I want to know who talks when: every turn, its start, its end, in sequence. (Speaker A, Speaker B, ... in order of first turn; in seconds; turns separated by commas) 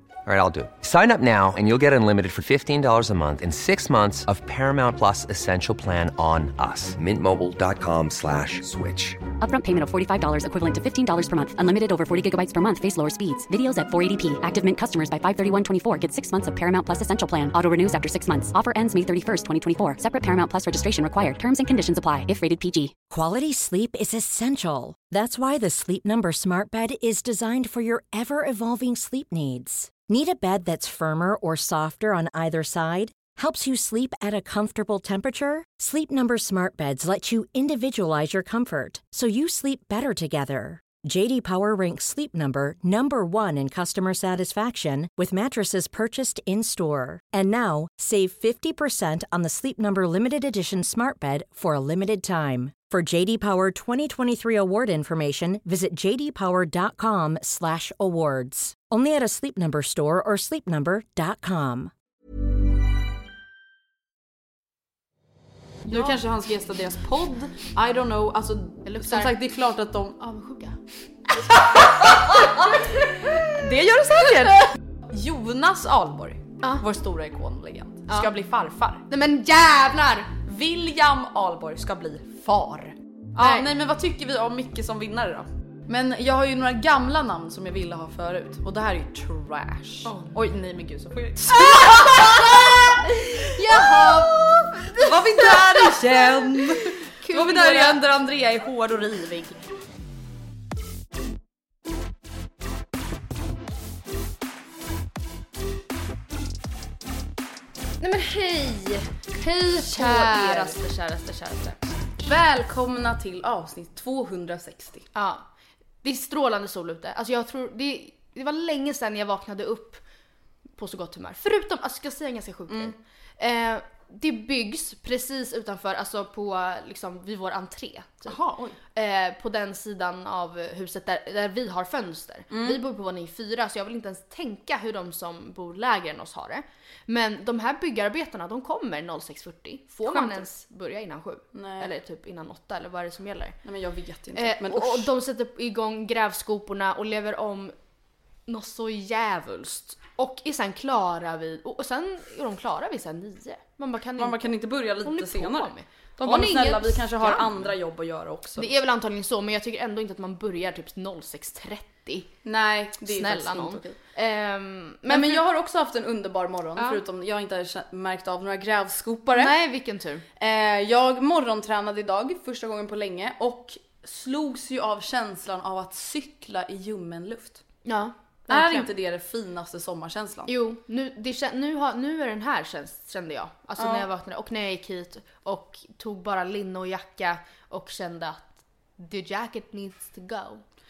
Speaker A: 0.2-9.2, Speaker B: 9.4-22.9, Speaker C: 23.1-61.9, Speaker D: 65.9-66.2, Speaker E: 65.9-70.2, Speaker D: 68.8-69.3, Speaker D: 70.2-70.8, Speaker E: 71.5-79.0, Speaker D: 72.2-73.5, Speaker D: 79.1-80.3, Speaker E: 80.4-99.5, Speaker D: 83.4-83.7, Speaker D: 90.0-90.3, Speaker D: 91.5-98.0, Speaker D: 108.0-111.8, Speaker E: 109.7-110.8, Speaker E: 112.2-115.0, Speaker D: 115.1-115.4, Speaker D: 116.0-120.0, Speaker D: 120.8-128.4, Speaker E: 128.3-128.8, Speaker D: 128.9-143.6, Speaker E: 132.5-132.8, Speaker E: 140.0-140.5, Speaker E: 141.5-141.9, Speaker E: 143.6-145.1, Speaker D: 144.3-147.7, Speaker D: 148.5-157.7, Speaker E: 154.2-158.7, Speaker D: 158.6-162.3, Speaker E: 162.4-164.0, Speaker D: 163.0-165.4, Speaker E: 165.1-169.6, Speaker D: 169.3-170.2, Speaker E: 170.4-177.6, Speaker D: 177.8-178.9, Speaker E: 178.5-180.5, Speaker D: 180.5-190.6, Speaker E: 183.8-184.1